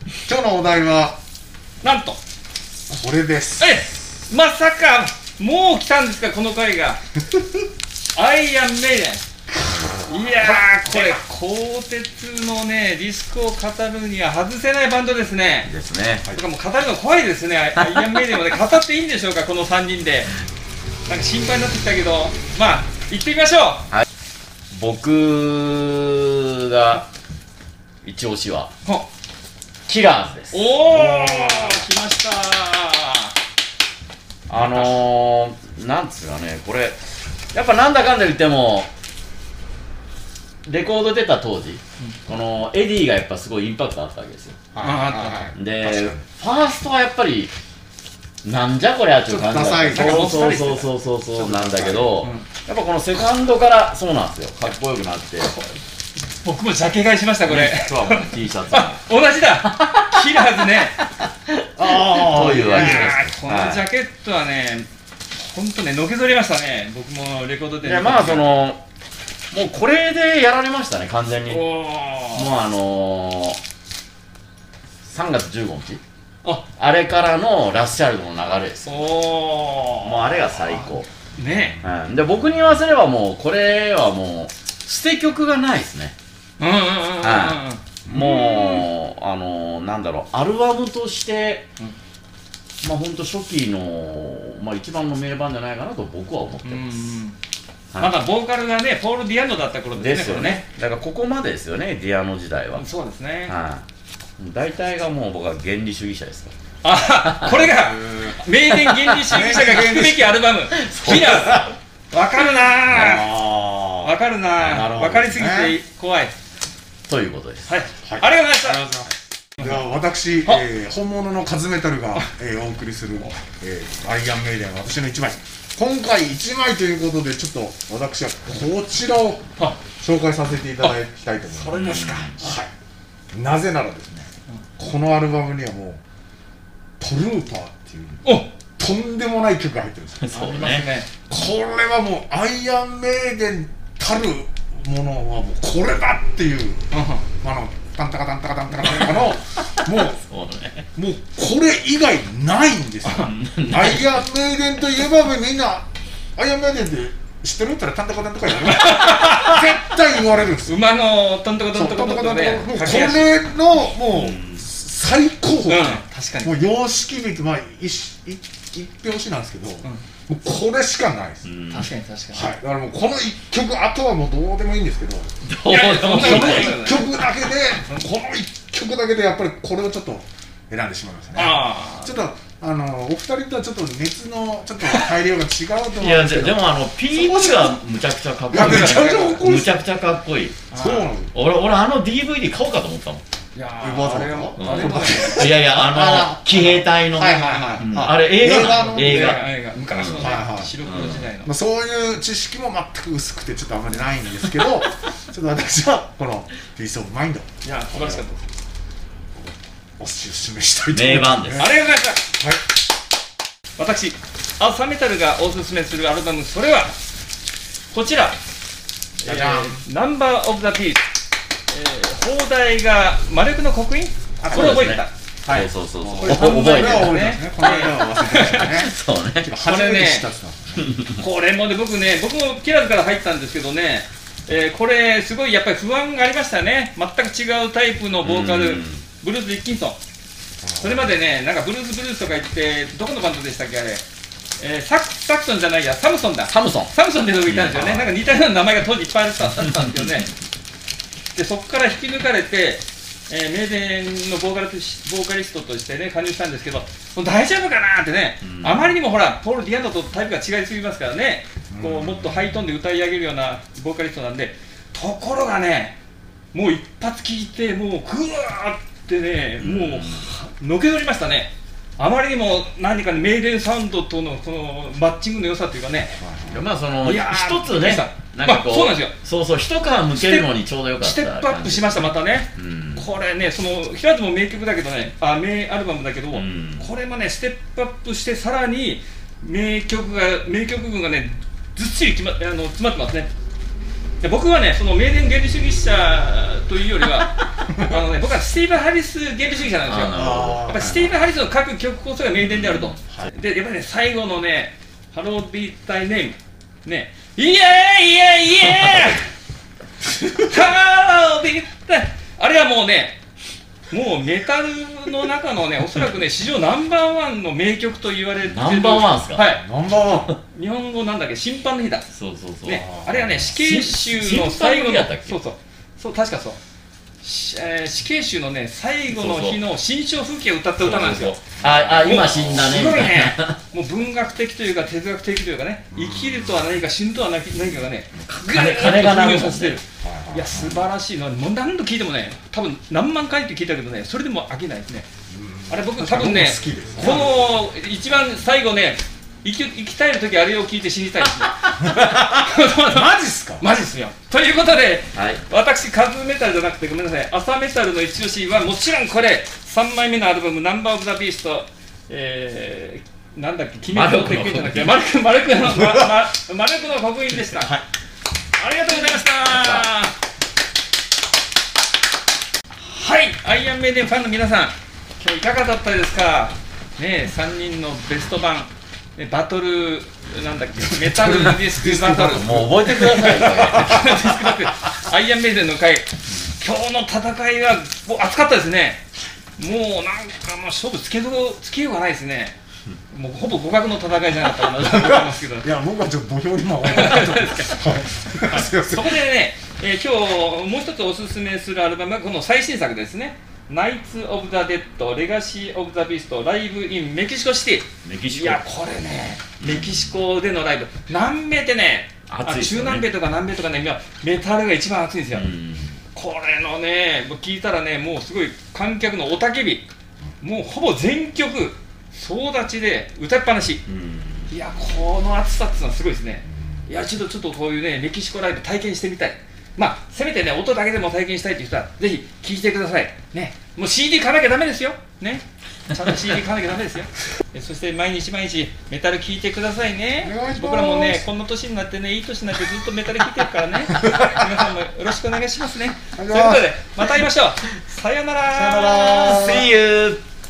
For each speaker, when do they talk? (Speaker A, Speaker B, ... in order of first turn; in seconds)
Speaker A: 0.3-1.2, 2.9-3.8, 9.8-11.2, 30.8-31.9, 34.5-34.9, 44.7-46.3, 49.4-50.5, 51.4-52.2, 61.8-63.1, 81.4-81.8, 88.1-88.3, 107.5-108.5, 109.2-110.4, 112.9-115.8, 118.0-132.7, 133.3-136.0, 137.0-140.4, 141.2-146.8, 147.4-150.2, 150.9-160.8, 161.7-171.5, 172.3-175.4, 176.1-187.8, 188.5-189.8, 190.7-191.3, 193.8-199.4, 200.2-200.9, 201.4-208.2, 209.4-211.8, 219.2-219.8, 224.4-224.9, 225.4-231.0, 240.6-241.1, 261.7-262.6, 276.2-276.6, 300.1-301.1, 319.5-320.4, 322.7-323.5, 331.5-332.2, 335.9-336.7, 340.0-340.9, 345.3-347.5, 352.0-353.7, 380.8-384.0, 394.7-399.2, 426.5-426.8, 440.2-441.2, 443.9-444.4, 446.1-446.7, 448.5-449.7
Speaker B: 1.8-2.2, 3.6-7.0, 8.2-9.2, 10.1-15.7, 16.3-20.4, 21.1-23.9, 30.5-33.3, 44.8-45.4, 49.3-50.9, 52.2-52.5, 55.4-55.8, 56.3-61.0, 62.3-68.5, 71.5-72.5, 78.8-81.8, 86.6-88.9, 96.7-97.4, 98.0-100.6, 102.8-103.5, 106.8-113.4, 114.0-116.3, 117.7-118.8, 131.5-132.5, 138.2-138.5, 140.3-141.1, 146.9-147.2, 158.7-159.6, 160.7-163.3, 165.7-166.6, 171.7-172.5, 175.7-177.1, 181.3-182.2, 188.6-189.4, 190.7-191.1, 193.5-195.5, 197.4-201.5, 207.6-208.4, 211.6-212.2, 213.8-217.0, 217.9-218.4, 219.2-221.0, 221.7-225.1, 226.2-228.7, 229.6-230.3, 231.2-240.0, 240.8-244.0, 244.6-250.3, 251.3-266.0, 266.5-276.2, 277.0-279.1, 280.1-293.3, 294.2-309.3, 310.4-313.2, 313.9-319.6, 320.5-322.1, 322.6-326.6, 327.2-345.1, 345.7-367.7, 368.6-370.2, 372.8-389.0, 389.6-392.6, 393.1-395.7, 396.8-415.5, 416.1-419.9, 420.4-423.8, 424.5-449.1
Speaker C: 15.7-16.3, 17.8-18.0, 24.7-27.1, 28.0-28.7, 29.9-30.7, 34.5-37.0, 37.5-38.9, 40.6-44.7, 45.5-47.5, 48.4-55.5, 57.5-59.0, 59.8-60.5, 61.2-63.9, 67.8-68.8, 69.5-71.7, 72.3-73.6, 75.0-76.0, 76.8-79.1, 80.0-81.1, 81.8-86.2, 87.2-91.7, 92.8-97.2, 99.9-102.8, 103.5-103.8, 104.4-106.5, 110.7-111.7, 117.1-117.7, 131.7-132.4, 140.2-140.9, 148.9-150.9, 153.1-154.2, 164.1-164.7, 171.4-171.9, 175.4-176.9, 186.0-190.7, 191.3-193.2, 194.6-201.3, 210.9-211.7, 224.5-227.3, 228.4-229.5, 230.8-231.2, 238.2-239.0, 246.5-246.9, 247.5-248.2, 258.4-259.0, 269.6-270.3, 276.5-283.1, 286.3-286.9, 299.8-300.8, 302.4-303.3, 318.4-319.5, 320.1-320.4, 322.1-322.8, 323.4-325.4, 329.1-329.6, 330.8-333.6, 338.1-339.8, 355.1-355.4, 363.9-365.0, 367.6-367.8, 368.9-369.9, 382.2-384.2, 408.0-408.7, 409.6-410.2, 412.3-413.1, 415.3-416.0, 423.9-424.5, 448.8-450.2